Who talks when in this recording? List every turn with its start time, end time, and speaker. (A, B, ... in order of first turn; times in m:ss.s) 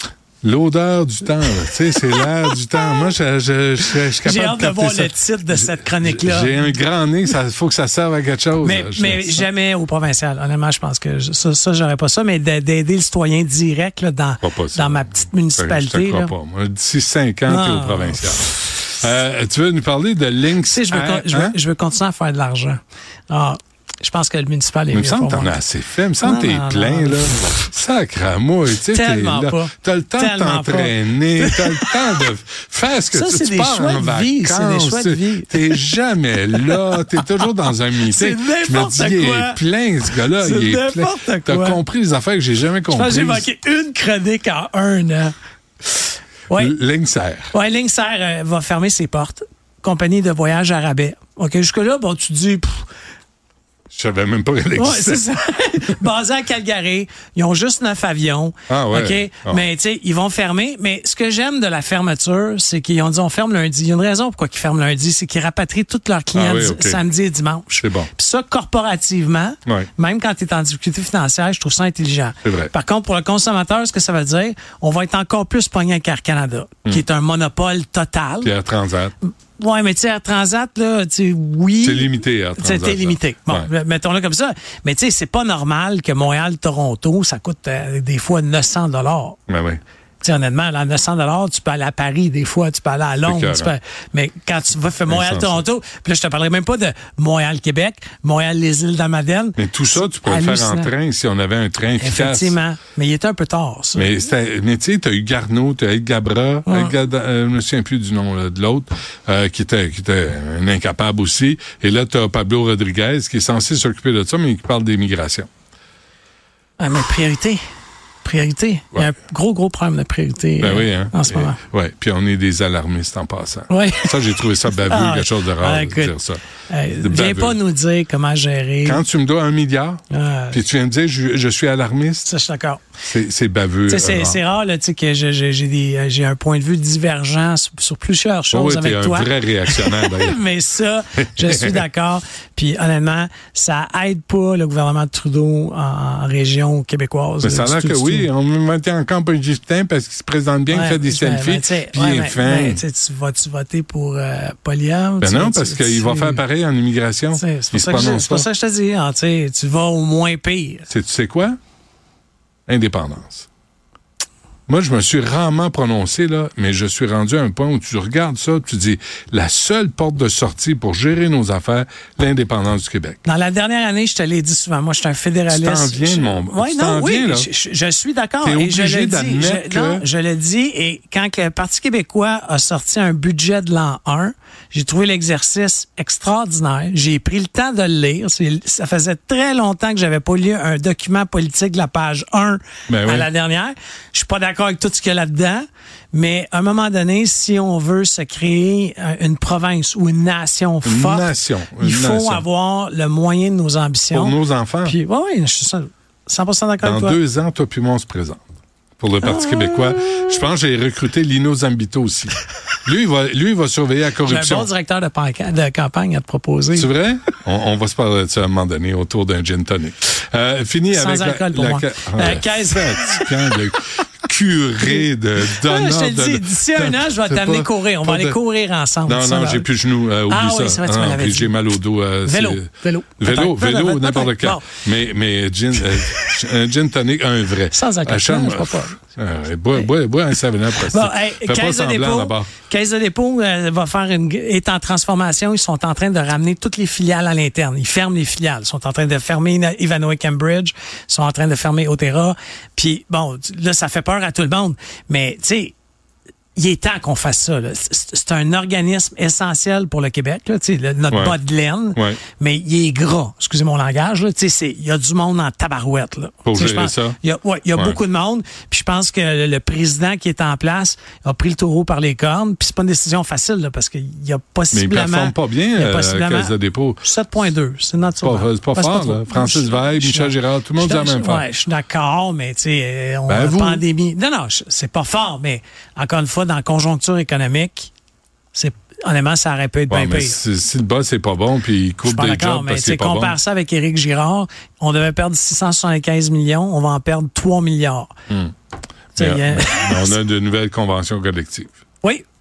0:00.4-0:09.5 A
0:01.9-0:02.2 B
0:04.1-0:06.6 B
0:08.6-0:16.3 B
0:14.4-0:21.6 A
0:17.5-0:18.7 B
0:20.6-0:25.6 B
0:24.9-0:43.5 A
0:26.2-0:27.5 B
0:28.9-0:32.0 B
0:33.1-0:35.9 B
0:36.6-0:37.5 B
0:38.0-0:39.6 B
0:40.3-0:41.8 B
0:42.9-0:45.3 B
0:46.5-0:46.8 B
0:46.5-0:47.5 A
0:47.5-0:52.9 B
0:53.9-0:55.2 A
0:54.8-1:18.5 B
0:58.7-0:59.6 A
1:06.3-1:07.0 A
1:07.8-1:08.1 A
1:12.4-1:12.7 A
1:18.4-1:19.1 A
1:19.6-1:29.4 B
1:21.8-1:23.7 A
1:29.5-1:29.8 A
1:30.2-1:40.9 B
1:33.2-1:33.7 A
1:35.1-1:35.6 A
1:39.6-1:42.6 A
1:42.0-1:44.1 B
1:44.0-1:55.5 A
1:46.7-1:47.0 B
1:56.8-1:57.6 B
1:58.2-2:01.6 B
2:00.6-2:07.6 A
2:03.7-2:04.2 B
2:04.7-2:06.2 B
2:06.7-2:09.0 B
2:08.8-2:12.3 A
2:10.1-2:10.6 B
2:12.2-2:12.8 B
2:13.0-2:14.4 A
2:13.9-2:28.3 B
2:18.5-2:20.4 A
2:21.4-2:21.8 A
2:27.4-2:32.8 A
2:30.7-2:36.4 B
2:35.2-2:38.5 A
2:37.3-2:40.9 B
2:40.9-2:41.6 A
2:42.7-2:43.5 A
2:44.7-2:53.2 A
2:53.2-3:27.2 B
2:55.5-2:57.5 A
2:58.4-3:00.0 A
3:12.9-3:13.3 A
3:20.8-3:22.4 A
3:24.1-3:25.0 A
3:26.8-3:28.4 A
3:29.0-3:34.7 A
3:29.2-3:30.4 B
3:34.2-3:36.9 B
3:36.8-3:48.4 A
3:40.9-3:43.6 B
3:45.0-3:49.7 B
3:49.1-4:02.5 A
3:50.3-3:51.6 B
3:52.2-3:54.8 B
3:55.9-3:56.4 B
3:57.7-3:59.0 B
4:00.7-4:15.7 B
4:16.6-4:47.9 B
4:21.1-4:21.4 A
4:22.0-4:22.2 A
4:26.5-4:27.2 A
4:34.7-4:37.0 A
4:38.2-4:41.5 A
4:43.3-4:43.8 A
4:48.5-4:50.4 B
4:49.9-4:53.4 A
4:52.0-4:58.1 B
4:59.2-5:00.2 B
4:59.2-5:01.7 A